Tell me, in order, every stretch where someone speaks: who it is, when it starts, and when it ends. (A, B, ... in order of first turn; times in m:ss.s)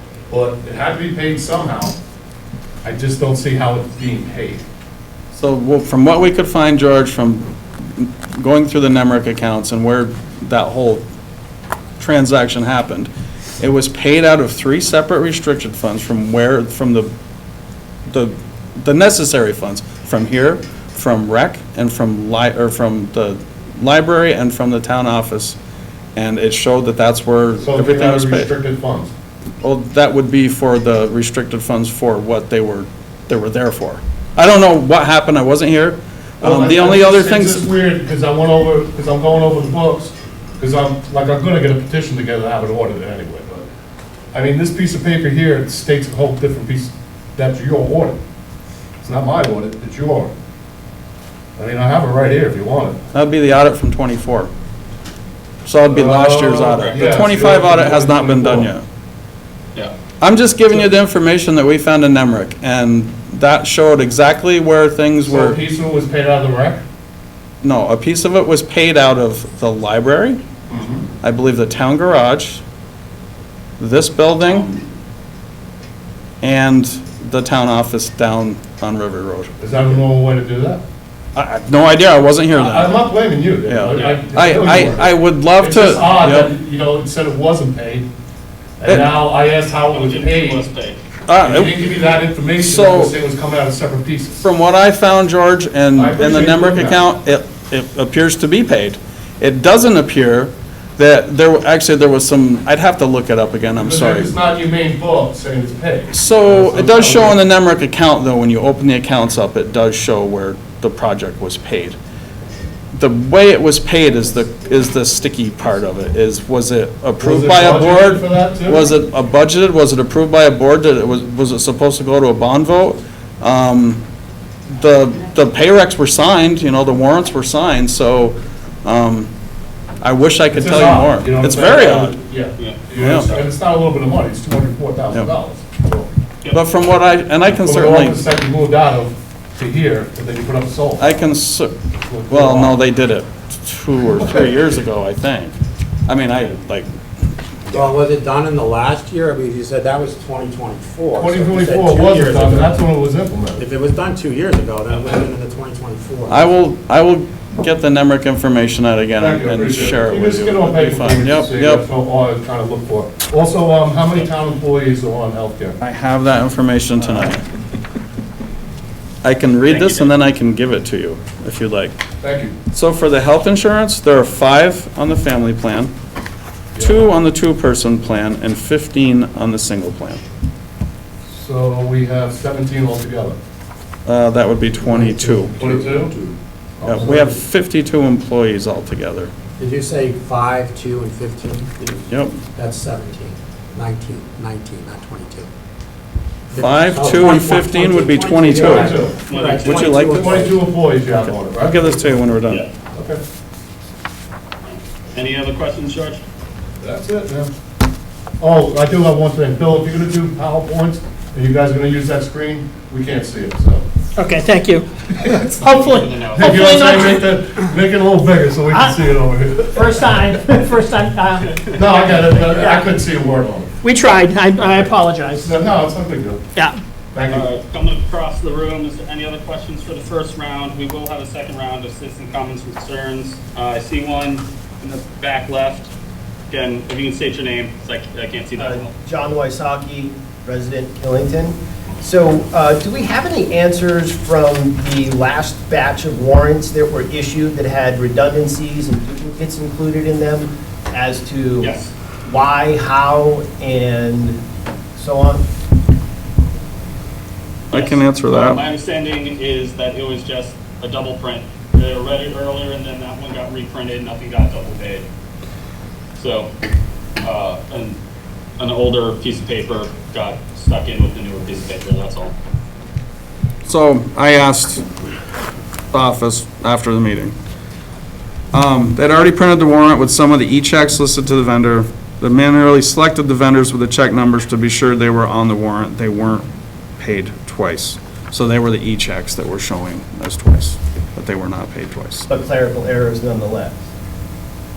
0:00.3-0:02.0 A
0:02.8-0:04.6 A
0:05.3-0:11.0 B
0:12.0-0:17.1 B
0:18.1-0:25.6 B
0:26.2-0:28.5 B
0:27.6-0:29.1 A
0:29.6-0:37.7 B
0:36.4-0:43.7 A
0:44.3-0:48.2 A
0:49.0-0:50.3 A
0:51.6-0:53.0 A
0:53.1-0:54.5 B
0:55.6-0:58.8 B
0:55.9-0:58.7 A
0:56.8-0:57.0 C
1:00.2-1:05.6 B
1:05.2-1:06.8 A
1:07.6-1:10.4 B
1:10.7-1:11.0 A
1:11.2-1:12.6 B
1:13.8-1:14.8 B
1:16.4-1:20.0 B
1:19.6-1:20.8 A
1:21.3-1:23.0 B
1:22.5-1:28.1 A
1:23.6-1:26.5 B
1:28.8-1:30.6 A
1:28.9-1:29.1 B
1:29.9-1:31.0 C
1:31.3-1:31.8 B
1:31.4-1:34.4 A
1:32.6-1:33.2 B
1:34.4-1:44.3 B
1:36.0-1:37.0 A
1:43.8-1:47.4 A
1:46.1-1:52.0 B
1:53.0-2:04.0 B
1:57.2-1:58.8 A
2:04.7-2:09.3 B
2:10.0-2:12.2 B
2:10.5-2:16.1 A
2:13.0-2:13.4 B
2:16.5-2:18.2 B
2:17.6-2:21.2 A
2:21.0-2:25.6 B
2:21.9-2:22.8 A
2:26.1-2:26.9 B
2:27.7-2:32.8 D
2:31.1-2:33.6 A
2:33.6-2:36.5 D
2:36.3-2:41.9 B
2:39.2-2:45.8 A
2:45.8-2:47.4 B
2:49.2-2:52.0 B
2:49.7-2:50.1 C
2:52.2-2:52.5 A
2:52.7-2:55.9 B
2:56.8-2:57.0 A
2:56.8-3:00.2 B
3:01.3-3:03.4 A
3:04.0-3:05.6 B
3:04.8-3:06.4 D
3:05.6-3:06.1 A
3:06.8-3:07.3 A
3:06.8-3:09.3 B
3:06.9-3:07.2 D
3:09.6-3:12.0 D
3:12.1-3:12.4 B
3:12.5-3:15.5 D
3:16.5-3:20.6 D
3:16.6-3:19.0 B
3:18.5-3:19.2 A
3:19.3-3:19.8 C
3:19.6-3:20.5 B
3:20.0-3:22.2 A
3:21.2-3:22.7 B
3:22.9-3:23.2 A
3:25.1-3:26.2 C
3:26.8-3:27.5 A
3:28.4-3:33.8 A
3:34.2-3:37.2 E
3:35.2-3:35.8 A
3:35.6-3:36.8 C
3:36.3-3:40.3 A
3:38.7-3:42.9 E
3:41.5-3:41.8 C
3:41.7-3:43.7 A
3:43.8-3:45.8 E
3:45.4-3:46.4 A
3:47.1-3:47.5 A
3:47.3-3:55.9 C
3:56.5-3:58.9 C
3:58.6-4:14.4 F
4:11.6-4:11.9 C
4:15.0-4:15.4 F
4:17.7-4:25.1 C
4:17.7-4:18.6 B
4:26.2-4:26.5 C
4:27.2-4:28.0 C
4:28.6-4:32.3 C
4:33.6-4:34.8 B
4:35.9-4:37.4 B
4:38.5-4:52.3 B
4:52.3-4:53.8 F